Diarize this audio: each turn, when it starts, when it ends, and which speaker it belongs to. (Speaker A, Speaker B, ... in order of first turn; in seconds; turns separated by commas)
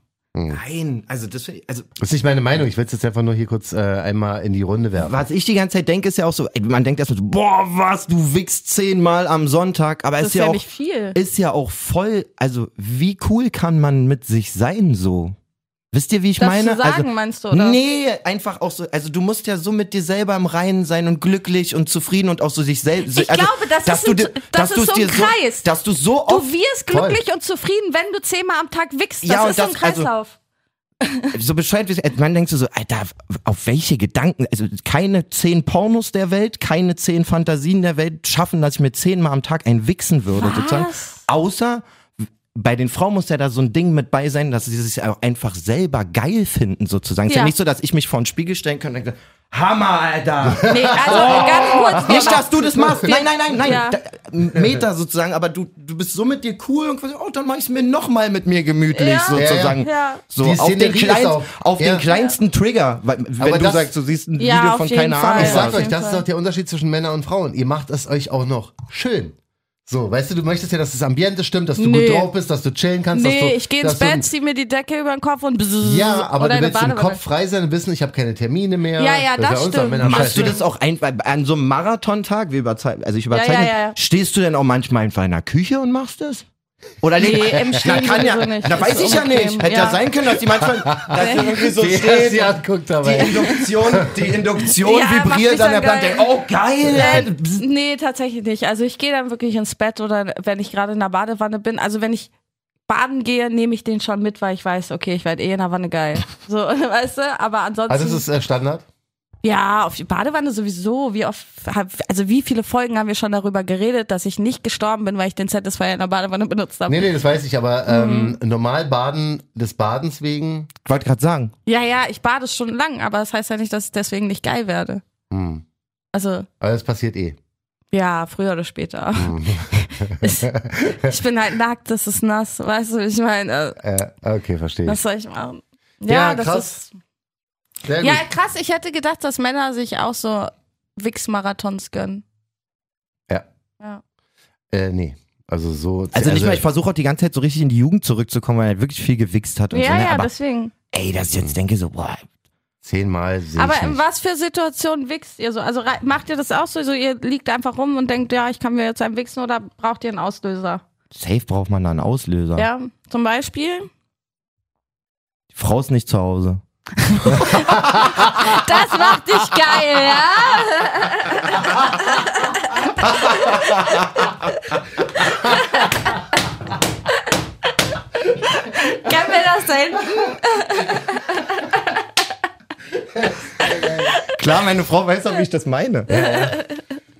Speaker A: 0.3-0.6, Speaker B: 0.5-1.9, Speaker A: 2.0-5.2, Speaker B: 5.0-10.6, Speaker C: 10.2-11.2, Speaker B: 11.1-15.3, Speaker B: 15.9-26.5, Speaker C: 16.4-17.8, Speaker C: 23.1-25.7, Speaker C: 26.3-30.3, Speaker A: 26.9-27.2, Speaker B: 29.2-30.1, Speaker B: 31.3-41.8, Speaker C: 40.3-41.2, Speaker B: 42.5-65.8, Speaker C: 47.3-47.5, Speaker A: 50.5-53.1, Speaker C: 50.7-54.0, Speaker A: 54.5-54.8, Speaker C: 58.9-60.2, Speaker A: 59.3-59.8, Speaker A: 60.4-62.1, Speaker C: 62.1-62.3, Speaker A: 63.4-63.9, Speaker C: 64.4-66.2, Speaker A: 65.3-69.3, Speaker A: 69.8-74.2, Speaker C: 71.8-72.3, Speaker C: 73.1-77.2, Speaker A: 75.8-80.6, Speaker C: 79.0-80.6, Speaker B: 80.0-86.4, Speaker C: 83.3-84.0, Speaker B: 87.0-97.6, Speaker C: 87.2-90.0, Speaker A: 91.0-94.2, Speaker C: 91.1-91.5, Speaker C: 93.1-93.6, Speaker C: 94.8-96.2, Speaker C: 96.9-102.3, Speaker C: 102.9-108.2, Speaker A: 107.9-108.8, Speaker C: 109.4-117.1, Speaker A: 116.9-120.7, Speaker C: 117.9-118.3, Speaker B: 120.8-121.5, Speaker C: 121.7-125.0, Speaker A: 125.3-125.6, Speaker C: 126.1-126.5, Speaker A: 126.6-127.4, Speaker C: 127.9-133.8, Speaker A: 129.2-131.1, Speaker A: 133.8-135.0, Speaker C: 134.8-136.9, Speaker A: 136.1-136.8, Speaker A: 137.8-138.2, Speaker C: 138.0-142.2, Speaker A: 144.7-146.6, Speaker B: 146.1-150.3, Speaker C: 149.7-150.7, Speaker B: 150.9-152.2, Speaker A: 152.8-154.0, Speaker C: 153.6-160.8, Speaker B: 161.1-162.7, Speaker C: 162.6-163.9, Speaker B: 165.5-166.6, Speaker C: 167.1-174.1, Speaker B: 167.1-167.8, Speaker C: 175.3-176.1, Speaker C: 178.3-182.0, Speaker C: 183.7-184.3, Speaker B: 184.2-186.1, Speaker C: 186.1-186.8, Speaker A: 186.1-186.6